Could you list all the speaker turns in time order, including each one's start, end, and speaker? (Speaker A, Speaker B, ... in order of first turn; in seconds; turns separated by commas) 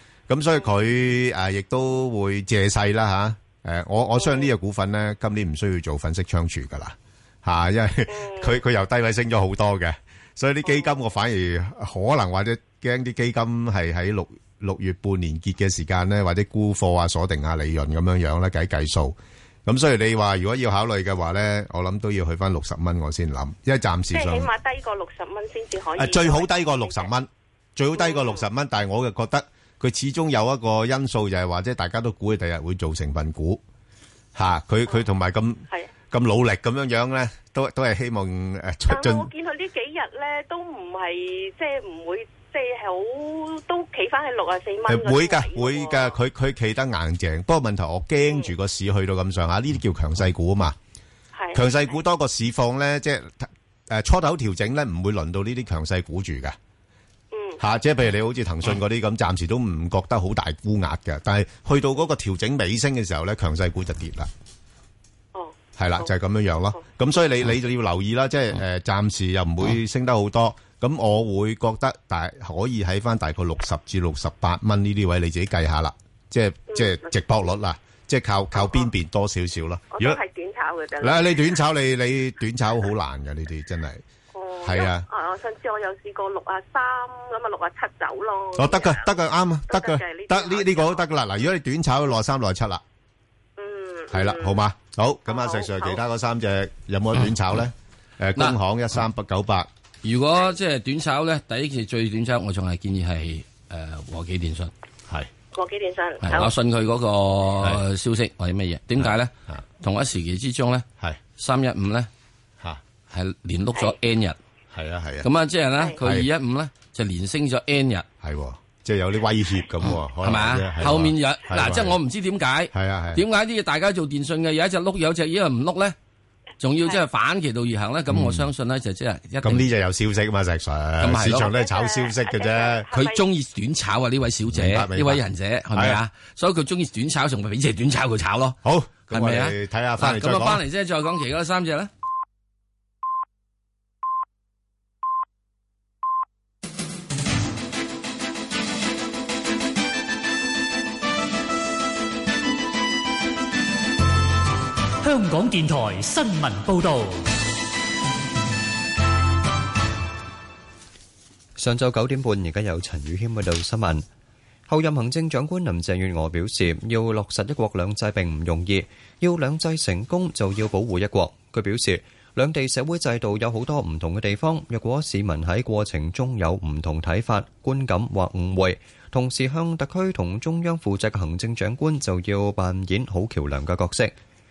Speaker A: 0.3-24.5, Speaker B: 4.2-4.5, Speaker B: 8.1-8.6, Speaker B: 10.7-11.0, Speaker B: 24.1-27.1, Speaker A: 26.0-33.6, Speaker B: 27.9-28.4, Speaker A: 34.4-39.3, Speaker B: 38.9-46.2, Speaker A: 44.9-50.8, Speaker B: 51.4-51.9, Speaker A: 51.5-56.6, Speaker B: 57.3-57.6, Speaker A: 57.6-64.3, Speaker B: 65.3-66.1, Speaker A: 65.8-80.2, Speaker B: 76.7-77.2, Speaker B: 78.5-78.9, Speaker B: 79.9-81.6, Speaker A: 81.0-84.0, Speaker B: 84.3-89.1, Speaker A: 84.6-85.0, Speaker A: 88.6-92.8, Speaker B: 89.7-91.1, Speaker B: 93.6-94.6, Speaker A: 94.1-99.7, Speaker B: 95.3-96.0, Speaker C: 100.0-104.7, Speaker B: 105.5-106.5, Speaker C: 106.2-110.9, Speaker A: 109.0-109.6, Speaker C: 111.4-112.1, Speaker C: 113.1-114.4, Speaker A: 114.7-115.3, Speaker C: 115.2-118.1, Speaker A: 116.0-116.3, Speaker A: 118.2-122.0, Speaker C: 119.9-126.0, Speaker A: 122.7-123.2, Speaker C: 126.6-129.7, Speaker A: 128.1-128.5, Speaker A: 129.4-133.0, Speaker C: 131.0-131.5, Speaker B: 131.4-133.2, Speaker C: 132.9-138.6, Speaker A: 134.5-135.2, Speaker A: 135.7-136.0, Speaker A: 138.6-140.6, Speaker C: 139.1-141.9, Speaker D: 155.0-157.2, Speaker E: 161.6-164.1, Speaker E: 164.7-184.2